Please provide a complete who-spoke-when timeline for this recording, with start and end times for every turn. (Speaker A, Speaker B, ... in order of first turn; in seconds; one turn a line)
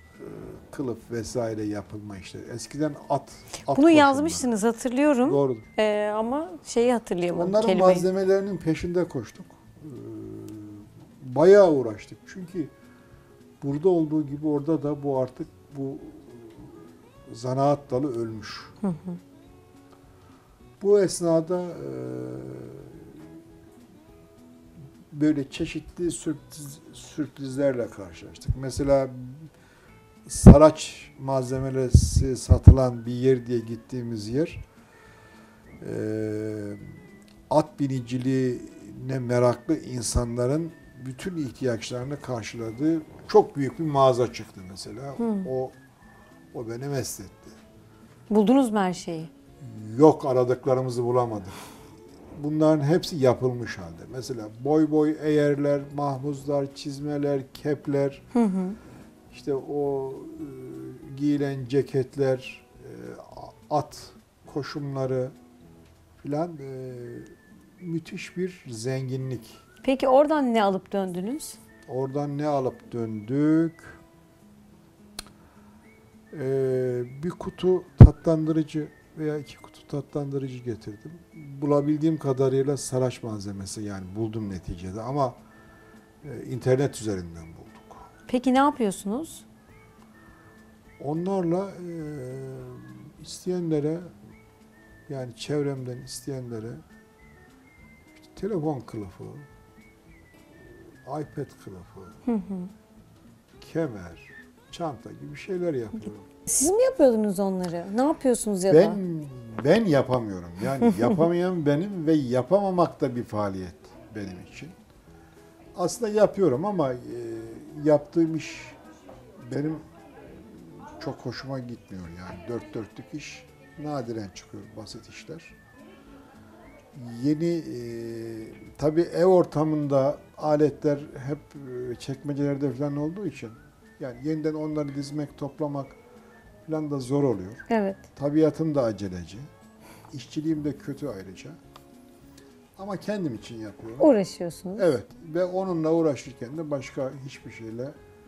Speaker A: 0.2-4.5
Speaker B: 3.7-8.1
Speaker A: 5.2-5.7
Speaker A: 7.3-12.7
Speaker A: 13.6-18.8
Speaker B: 18.8-19.2
Speaker A: 20.8-23.2
Speaker A: 25.1-29.5
Speaker A: 30.3-34.6
Speaker A: 35.8-37.0
Speaker A: 37.5-45.8
Speaker B: 45.2-45.5
Speaker A: 46.5-47.6
Speaker B: 48.3-49.3
Speaker A: 49.6-51.6
Speaker A: 52.4-58.3
Speaker B: 58.3-58.8
Speaker A: 59.3-65.3
Speaker A: 66.2-69.6
Speaker B: 69.8-71.6
Speaker A: 71.9-74.0
Speaker A: 76.3-85.4
Speaker A: 86.2-88.1
Speaker B: 88.3-89.5
Speaker A: 91.0-94.1
Speaker A: 95.1-96.8
Speaker A: 98.2-99.5
Speaker A: 100.6-102.2
Speaker B: 102.3-102.7
Speaker A: 103.6-106.3
Speaker B: 106.5-109.0
Speaker A: 108.7-114.8
Speaker A: 115.8-118.8
Speaker A: 119.4-125.5
Speaker A: 126.9-136.0
Speaker A: 136.7-139.5
Speaker B: 137.7-138.0
Speaker A: 140.1-141.6
Speaker A: 142.8-144.1
Speaker B: 144.0-144.9
Speaker A: 144.8-147.9